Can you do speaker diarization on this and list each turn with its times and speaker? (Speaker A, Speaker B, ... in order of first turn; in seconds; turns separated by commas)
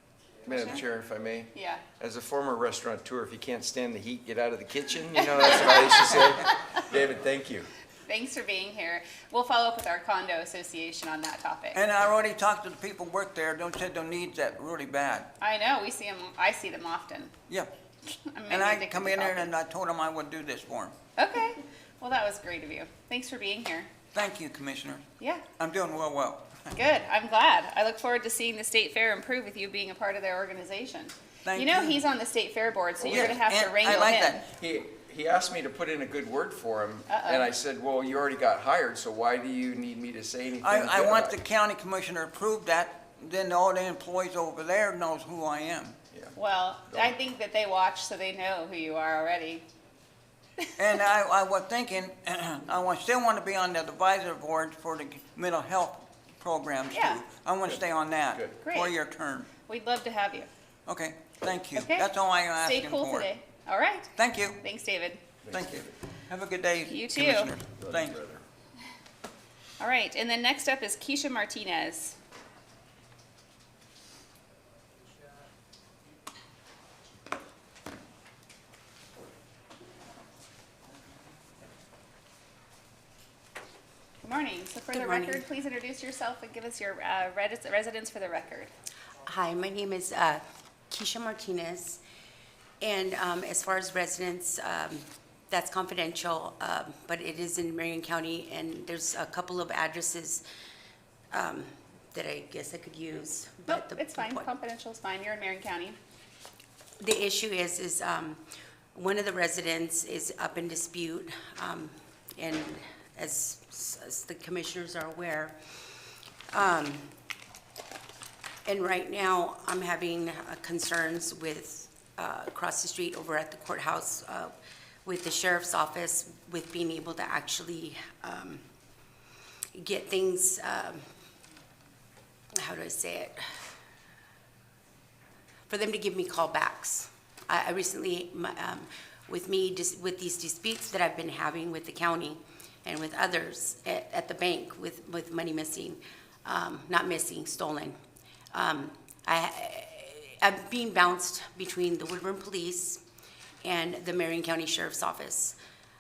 Speaker A: 0.5-0.8, Speaker B: 0.5-7.7, Speaker A: 1.5-1.9, Speaker A: 5.1-6.3, Speaker A: 8.1-11.8, Speaker C: 11.7-15.3, Speaker A: 15.4-17.3, Speaker A: 18.1-19.5, Speaker C: 18.5-20.9, Speaker A: 21.2-23.9, Speaker C: 24.1-25.0, Speaker A: 25.2-25.5, Speaker C: 25.6-26.7, Speaker A: 26.7-34.5, Speaker C: 31.4-32.0, Speaker B: 33.0-33.4, Speaker C: 33.1-34.5, Speaker B: 34.5-41.4, Speaker A: 37.1-37.5, Speaker C: 40.6-46.0, Speaker A: 46.4-49.6, Speaker B: 46.9-47.2, Speaker C: 50.8-59.5, Speaker A: 56.9-57.2, Speaker B: 58.3-58.6, Speaker A: 58.6-59.0, Speaker A: 59.5-60.5, Speaker C: 60.9-63.3, Speaker A: 61.8-62.1, Speaker A: 62.6-65.2, Speaker C: 64.2-64.6, Speaker B: 65.4-65.8, Speaker C: 65.5-68.2, Speaker A: 66.9-67.5, Speaker B: 67.8-68.4, Speaker A: 69.8-72.2, Speaker A: 84.2-88.7, Speaker D: 84.9-85.4, Speaker D: 89.2-92.0, Speaker D: 92.8-100.4, Speaker D: 101.3-104.5, Speaker A: 103.7-106.0, Speaker D: 107.0-108.4, Speaker D: 109.0-115.6, Speaker D: 116.5-117.1, Speaker D: 118.7-124.5, Speaker D: 125.0-128.6, Speaker D: 129.8-131.0, Speaker D: 132.6-133.6, Speaker D: 135.7-148.0, Speaker D: 148.5-153.0, Speaker D: 153.6-155.6